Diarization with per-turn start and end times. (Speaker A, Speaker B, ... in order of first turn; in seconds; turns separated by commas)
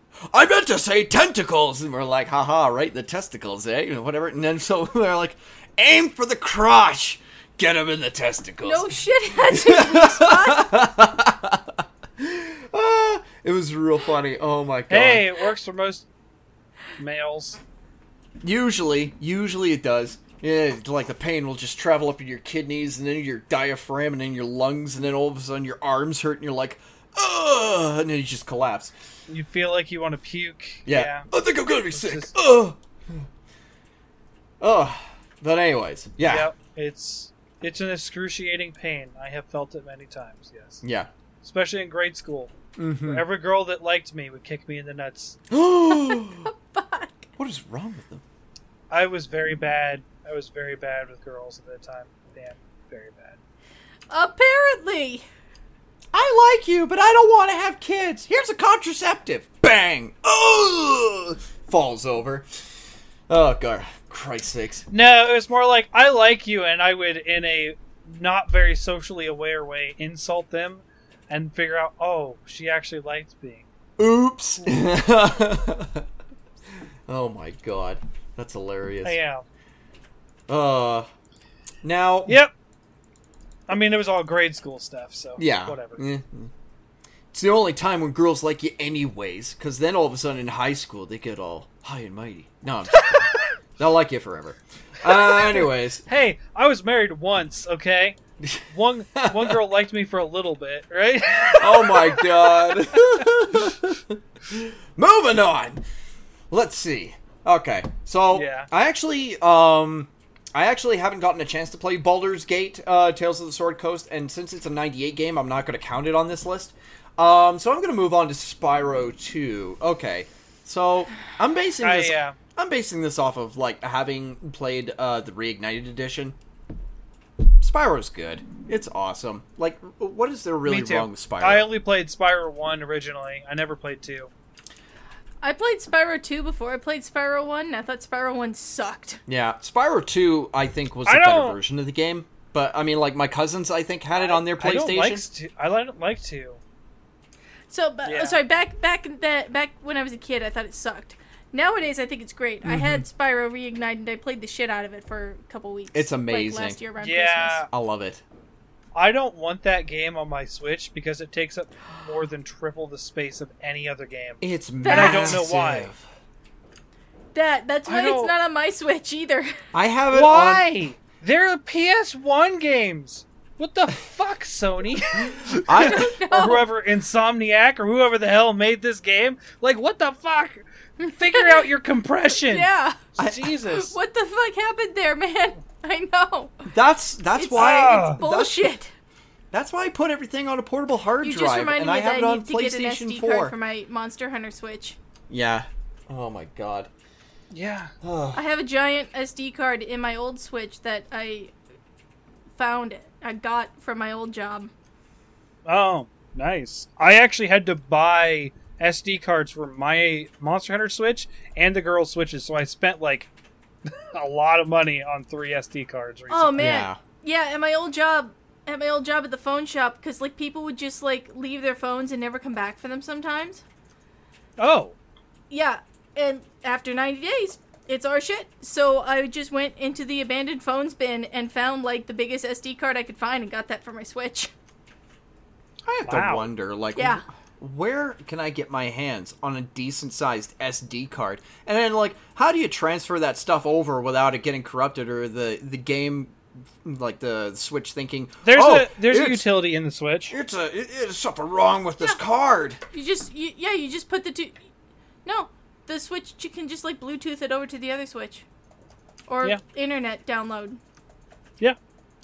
Speaker A: 0.3-15.3, Speaker B: 8.6-10.8, Speaker C: 14.9-16.1, Speaker C: 17.0-17.6, Speaker A: 18.4-28.9, Speaker C: 29.3-31.3, Speaker A: 30.9-33.2, Speaker C: 31.9-32.3, Speaker A: 34.6-36.5, Speaker C: 36.2-40.8, Speaker A: 40.8-41.1, Speaker C: 41.4-45.4, Speaker A: 42.8-43.2, Speaker A: 45.5-46.5, Speaker B: 45.9-47.3, Speaker A: 47.4-48.2, Speaker C: 48.9-53.4, Speaker B: 54.1-55.2, Speaker A: 56.1-62.8, Speaker A: 63.3-64.9, Speaker C: 64.9-73.7, Speaker A: 74.0-76.0, Speaker A: 77.1-79.2, Speaker C: 79.0-79.4, Speaker A: 80.5-81.1, Speaker A: 81.8-82.4, Speaker C: 82.3-82.5, Speaker C: 83.7-86.0, Speaker A: 85.4-86.5, Speaker A: 87.3-96.0, Speaker C: 95.1-103.2, Speaker A: 98.4-99.5, Speaker A: 101.6-105.8, Speaker A: 106.5-126.3, Speaker C: 108.3-108.7, Speaker C: 121.8-122.4, Speaker A: 127.6-131.7, Speaker C: 130.7-134.3, Speaker B: 135.4-139.2, Speaker A: 139.3-145.2, Speaker C: 141.1-141.6, Speaker C: 144.1-146.6, Speaker B: 147.7-157.7, Speaker C: 148.0-148.4, Speaker A: 152.6-153.0, Speaker A: 155.9-156.8, Speaker C: 157.0-157.7, Speaker A: 157.7-158.2, Speaker C: 158.9-165.9, Speaker A: 164.4-166.0, Speaker B: 164.8-165.4, Speaker B: 167.3-169.5, Speaker C: 167.8-168.3, Speaker A: 169.7-170.7, Speaker C: 170.1-183.9, Speaker B: 175.5-176.6, Speaker A: 175.5-176.1, Speaker B: 181.0-181.7, Speaker B: 182.4-183.1, Speaker A: 183.2-183.5, Speaker B: 183.6-186.7, Speaker A: 186.7-188.7, Speaker B: 187.3-188.9, Speaker C: 187.6-188.2, Speaker A: 189.5-193.5, Speaker B: 191.2-195.0, Speaker A: 195.3-196.9, Speaker C: 197.5-197.9, Speaker A: 198.0-198.4, Speaker B: 198.3-201.5, Speaker B: 202.5-204.7, Speaker C: 205.7-213.3, Speaker C: 213.8-216.7, Speaker B: 216.3-223.6, Speaker A: 216.6-217.0, Speaker C: 224.6-224.9, Speaker B: 225.5-234.5, Speaker A: 235.8-249.4, Speaker C: 236.1-236.5, Speaker B: 236.9-237.2, Speaker C: 248.4-250.3, Speaker A: 250.3-252.8, Speaker B: 252.9-254.6, Speaker B: 255.2-258.4, Speaker B: 259.3-260.8